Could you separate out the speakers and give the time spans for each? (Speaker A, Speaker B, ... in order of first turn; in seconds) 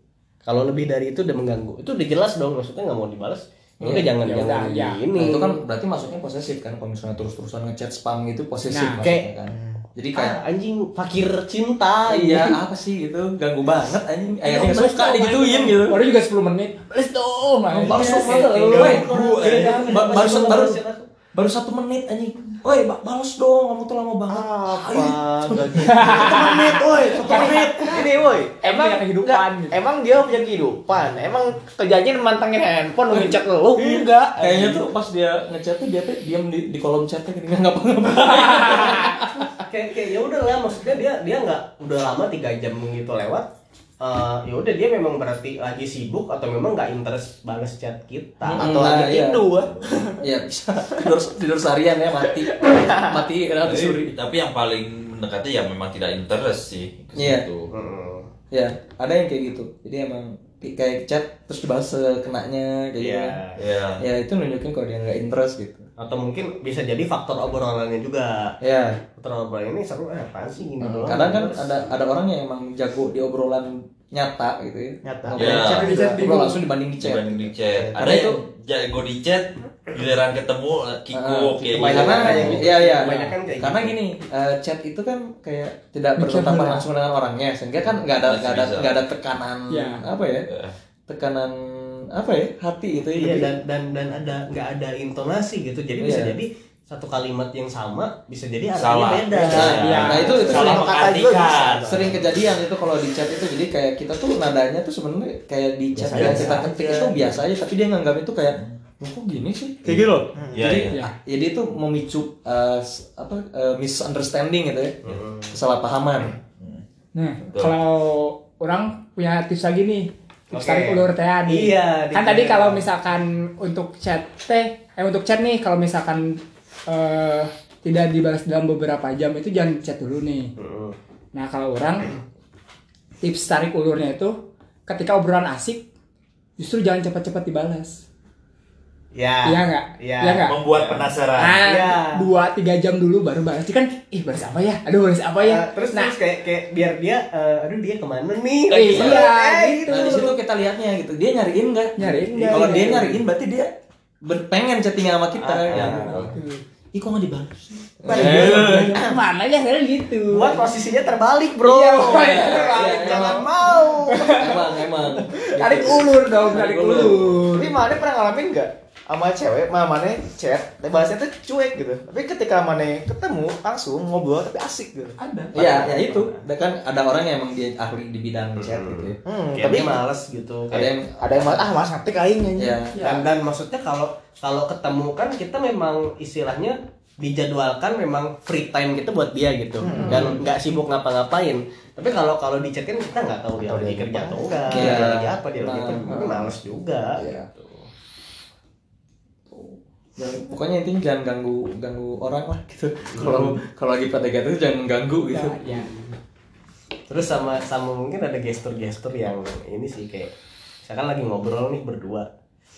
Speaker A: 0.4-5.6, 9.0-9.3, 10.1-12.6, 14.7-15.4, 17.8-21.1, 39.6-43.5, 44.0-48.7, 57.7-58.3, 63.0-63.6, 66.0-68.6, 69.2-71.7, 81.7-83.9, 93.1-100.4, 101.5-102.0, 106.1-106.6, 115.0-115.5, 120.5-122.9, 130.6-130.9, 139.1-142.3, 145.4-150.2, 152.0-153.2, 155.3-156.3, 158.2-159.1, 160.3-164.5, 178.6-180.9, 183.0-197.9, 203.1-203.6, 205.7-206.1, 207.1-210.3, 210.8-212.3
Speaker B: 3.8-4.1, 5.2-10.4, 12.1-16.0, 17.7-20.8, 21.3-28.0, 33.8-39.5, 48.6-49.4, 50.2-54.1, 57.1-57.4, 58.5-63.4, 64.0-65.9, 68.6-69.0, 70.8-78.4, 81.1-90.5, 91.1-93.5, 96.0-96.4, 99.5-100.9, 101.8-115.0, 115.5-116.3, 149.9-153.7, 154.2-156.2, 157.4-159.0, 162.0-163.5, 164.3-167.4, 175.5-179.2, 180.7-181.8, 182.6-182.9, 190.0-190.4, 194.7-196.6, 197.1-197.5, 199.5-205.6
Speaker C: 3.9-5.0, 8.7-9.0, 14.5-19.0, 25.9-28.0, 28.6-29.8, 38.2-39.2, 75.4-76.7, 86.2-86.9, 89.7-90.0, 99.6-100.6, 117.1-130.5, 131.3-132.1, 133.2-134.3, 134.9-135.9, 136.6-138.0, 139.4-140.6, 141.4-146.1, 148.7-150.3, 152.0-153.1, 155.7-156.6, 158.1-160.7, 161.6-163.5, 164.1-164.7, 165.4-167.8, 175.2-175.5, 182.9-183.2, 205.3-205.9
Speaker D: 9.5-9.8, 24.3-34.8, 48.5-50.2, 75.0-75.7, 77.7-78.0, 100.4-102.0, 106.0-107.3, 110.3-110.6, 158.1-159.0, 167.5-176.3, 179.2-180.0, 180.7-182.8, 189.8-190.4, 193.6-195.8
Speaker E: 18.4-20.2, 53.6-57.7, 63.5-64.0, 75.4-76.0, 77.0-82.6, 88.0-88.9, 98.7-102.2, 109.8-111.0, 117.4-117.7, 140.4-141.6, 155.8-156.3